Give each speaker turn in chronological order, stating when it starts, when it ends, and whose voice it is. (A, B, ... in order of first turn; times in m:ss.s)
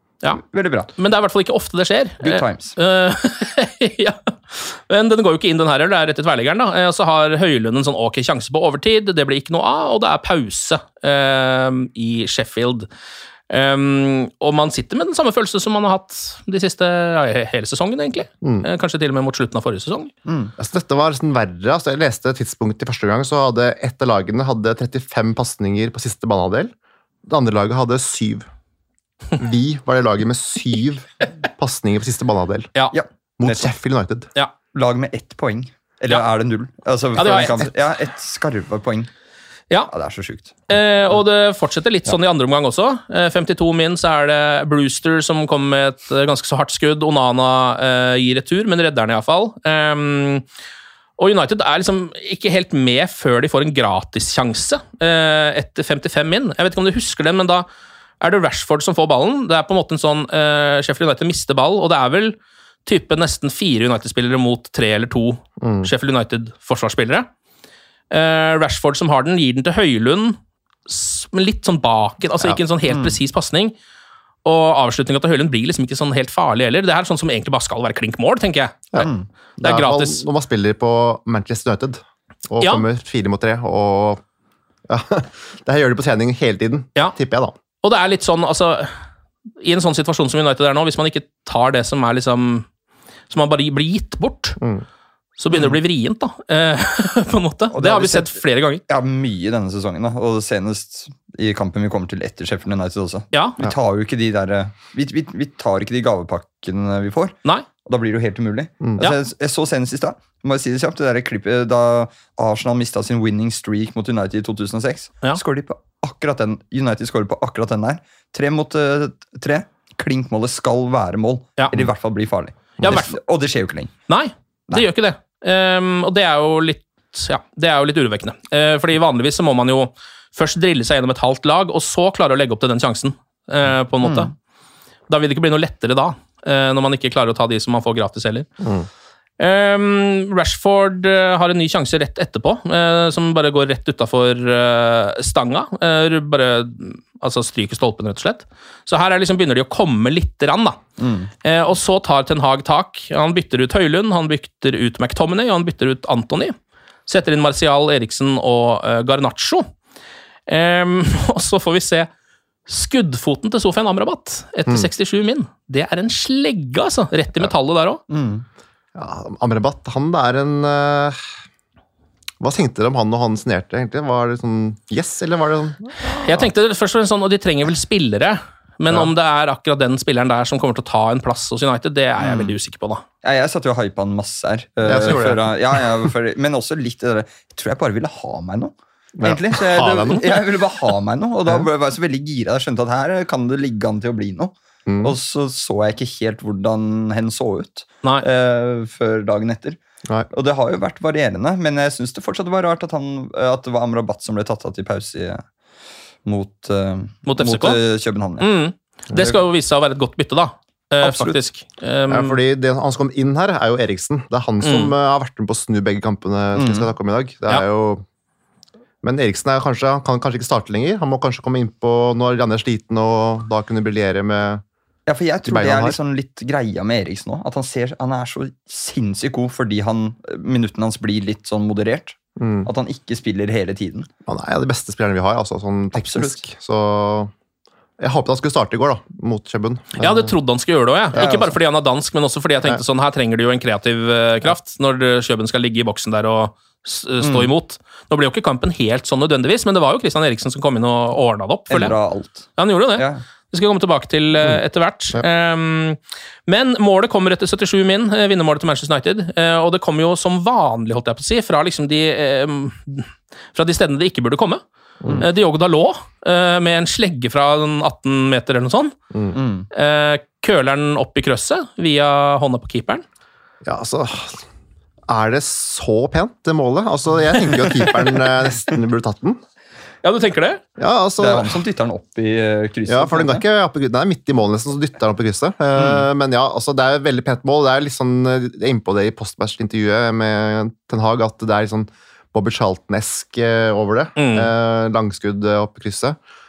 0:00.4-0:00.9 A
0:01.0-0:12.9 B
0:02.2-0:02.8 A
0:13.5-0:20.1 B
0:18.4-0:18.7 C
0:20.3-0:20.5 A
0:20.6-0:26.7 C
0:27.2-0:28.5 C
0:29.4-0:32.7 C
0:32.9-0:33.7 A
0:33.4-0:34.3 C
0:34.7-0:39.1 A
0:37.2-0:37.7 B
0:39.9-0:40.7 A
0:40.7-0:50.4 B
0:51.2-0:57.7 B
0:58.2-1:07.3 B
1:05.6-1:05.9 C
1:08.1-1:13.7 B
1:12.9-1:13.2 A
1:14.4-1:18.8 B
1:18.9-1:24.2 C
1:19.0-1:19.3 A
1:19.6-1:20.2 B
1:24.9-1:27.6 C
1:27.8-1:29.0 B
1:29.6-1:32.7 B
1:33.3-1:34.6 B
1:34.6-1:34.8 C
1:35.4-1:38.8 B
1:37.7-2:03.9 A
2:02.8-2:03.2 B
2:04.1-2:14.3 B
2:14.0-2:14.3 A
2:15.1-2:18.5 B
2:18.6-2:18.9 C
2:19.4-2:30.8 B
2:31.0-2:31.3 A
2:31.4-2:36.6 B
2:37.1-2:39.7 B
2:40.5-2:42.1 B
2:42.7-2:48.0 B
2:48.1-2:48.5 A
2:49.0-2:51.2 C
2:52.4-2:56.5 C
2:56.1-3:03.0 B
3:02.2-3:02.5 A
3:03.2-3:19.8 A
3:04.9-3:05.4 C
3:05.0-3:05.4 B
3:09.2-3:10.4 C
3:14.9-3:15.2 C
3:20.3-3:25.4 A
3:26.2-3:28.5 A
3:27.3-3:27.8 B
3:28.4-3:32.4 B
3:31.0-3:31.4 A
3:32.1-3:38.0 C
3:34.6-3:34.9 B
3:36.6-3:36.9 A
3:39.0-3:44.6 C
3:45.1-3:54.1 A
3:45.5-3:46.0 C
3:52.4-3:52.7 C
3:54.3-3:57.3 C
3:56.0-3:56.4 A
3:58.0-4:00.3 C
4:00.0-4:11.9 B
4:01.2-4:01.6 A
4:07.2-4:07.5 A
4:11.7-4:13.2 A
4:12.6-4:24.6 B
4:14.4-4:15.2 C
4:25.2-4:29.0 B
4:29.1-4:29.4 C
4:29.3-4:29.7 A
4:29.7-4:33.0 B
4:33.6-4:34.4 C
4:35.1-4:39.4 C
4:40.0-4:40.6 B
4:40.8-4:41.6 C
4:41.2-4:43.4 A
4:42.9-4:56.2 C
4:45.8-4:46.1 A
4:54.2-4:54.5 B